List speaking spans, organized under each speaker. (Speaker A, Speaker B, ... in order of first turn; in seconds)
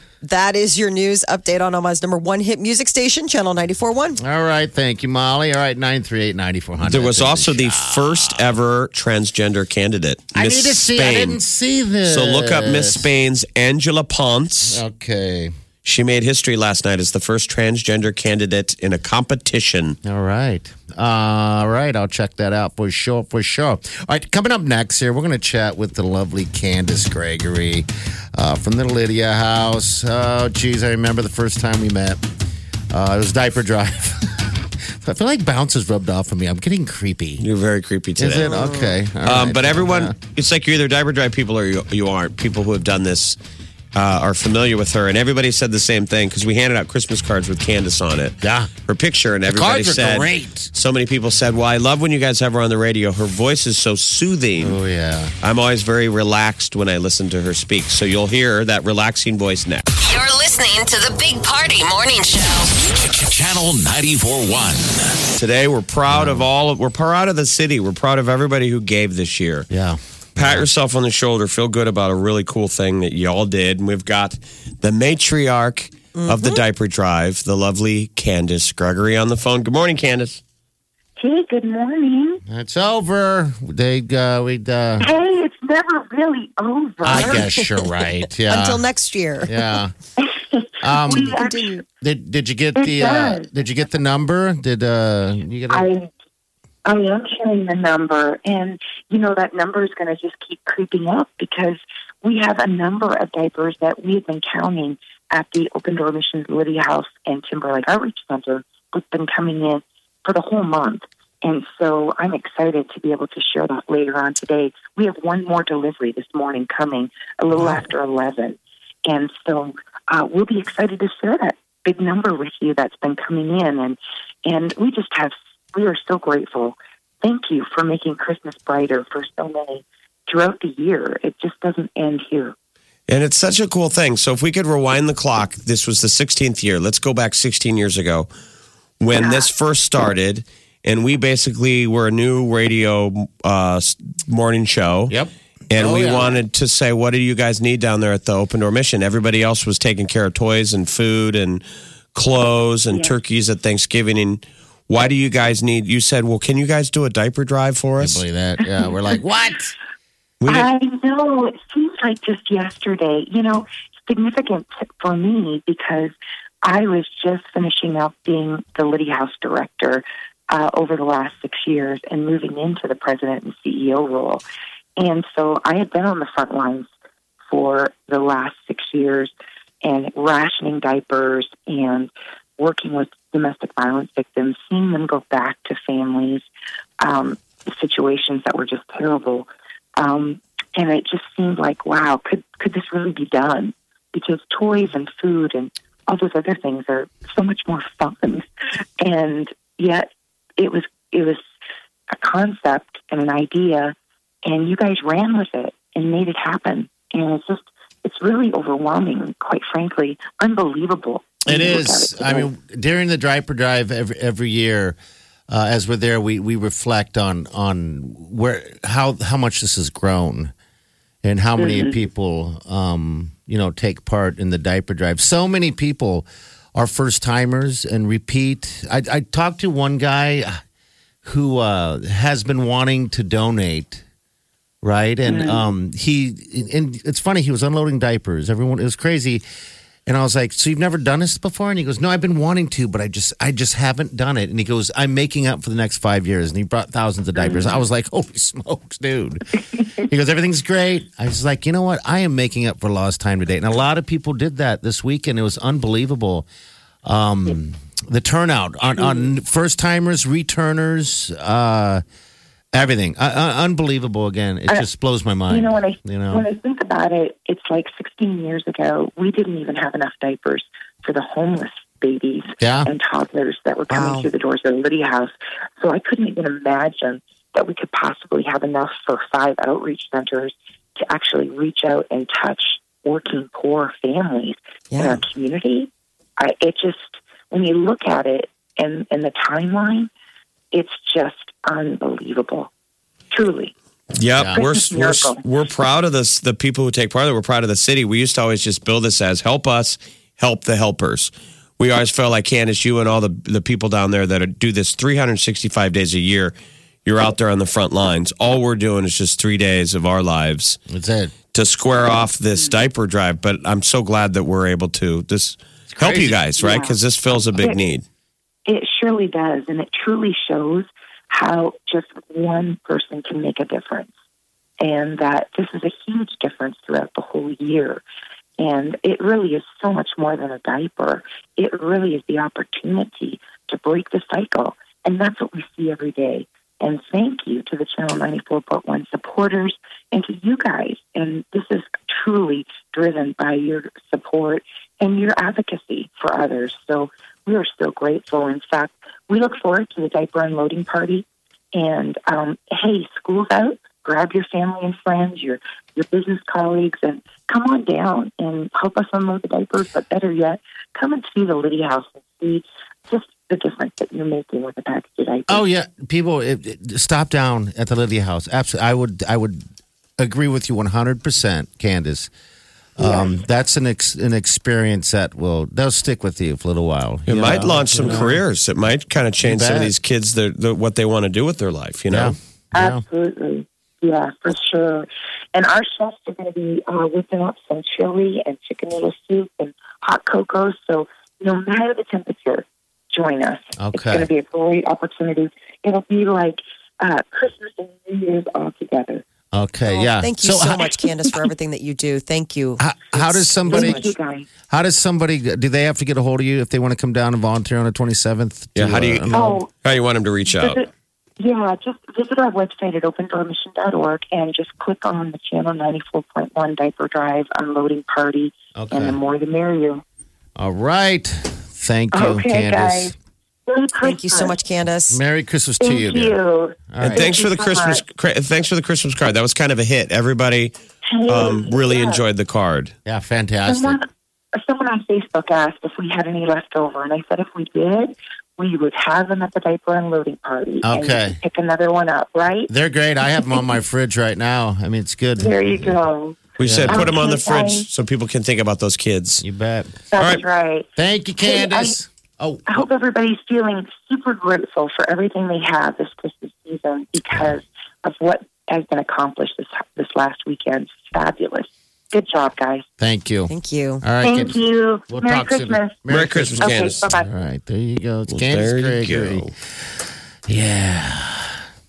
Speaker A: 0.2-4.2, 38.4-38.9, 76.2-76.6, 87.1-87.8, 88.5-89.6, 91.3-91.8, 273.9-274.3, 284.9-285.2, 399.9-404.1, 424.0-425.2, 463.5-464.0
Speaker B: 4.2-8.5, 10.3-13.1, 14.7-15.5, 20.0-32.2, 32.9-37.4, 38.2-40.1, 48.4-48.7, 49.5-50.7, 54.6-55.3, 66.1-66.5, 69.7-70.7, 82.5-85.1, 87.0-88.8, 89.4-89.9, 90.8-91.4, 92.0-95.9, 145.1-146.4, 158.0-159.7, 211.4-215.0, 215.5-220.5, 221.2-230.6, 231.2-234.0, 234.8-239.4, 240.1-256.4, 257.0-262.0, 262.7-266.4, 272.6-272.9, 310.9-311.3, 315.9-316.4, 365.5-369.6, 370.2-372.3, 373.0-378.4, 379.4-379.9, 382.1-383.0, 393.8-394.3, 399.5-401.4, 402.8-404.1, 404.7-409.5, 418.7-419.2, 420.6-423.1, 425.1-426.4, 426.9-427.3, 433.1-434.0, 440.8-441.4, 442.7-445.9, 446.6-447.2, 449.4-450.0, 451.0-452.9, 463.0-464.6, 465.1-469.5, 470.5-471.6
Speaker C: 6.8-11.4, 12.0-14.8, 15.8-20.0, 37.4-38.5, 39.2-43.4, 43.9-48.4, 48.9-54.8, 55.4-59.9, 65.3-69.7, 70.3-80.4, 133.1-138.3, 139.0-145.2, 145.7-151.6, 152.1-158.2, 160.4-160.7, 294.1-306.5, 307.0-310.8, 311.5-318.0, 377.3-382.4, 408.7-410.8, 427.0-430.7, 431.3-432.9, 446.6-449.4, 450.2-450.4, 466.1-467.0, 468.3-469.5
Speaker D: 60.0-62.7
Speaker E: 62.9-65.2
Speaker F: 81.2-82.4, 85.0-87.4, 90.2-91.6, 92.8-93.5, 95.7-96.1, 96.8-132.5, 139.1-139.5, 152.9-153.1, 158.6-158.9, 160.5-166.1, 166.6-174.4, 175.0-176.9, 177.5-179.3, 179.8-186.4, 187.0-198.4, 199.0-201.4, 202.1-212.5, 221.6-222.0, 235.2-235.6, 247.4-247.7, 259.0-259.3, 265.5-290.1, 290.7-292.7, 293.3-293.7, 294.5-295.4, 316.6-317.0, 317.6-317.8, 318.6-324.1, 324.8-328.0, 328.6-365.6, 373.0-373.3, 382.7-399.2, 403.7-404.5, 409.3-409.7, 410.5-420.0, 422.1-423.1, 423.7-424.6, 425.8-428.0, 431.0-432.2, 433.6-442.7, 443.4-443.6, 445.4-447.9, 450.1-450.9, 451.4-451.9, 452.7-462.8, 464.2-466.0, 466.6-467.3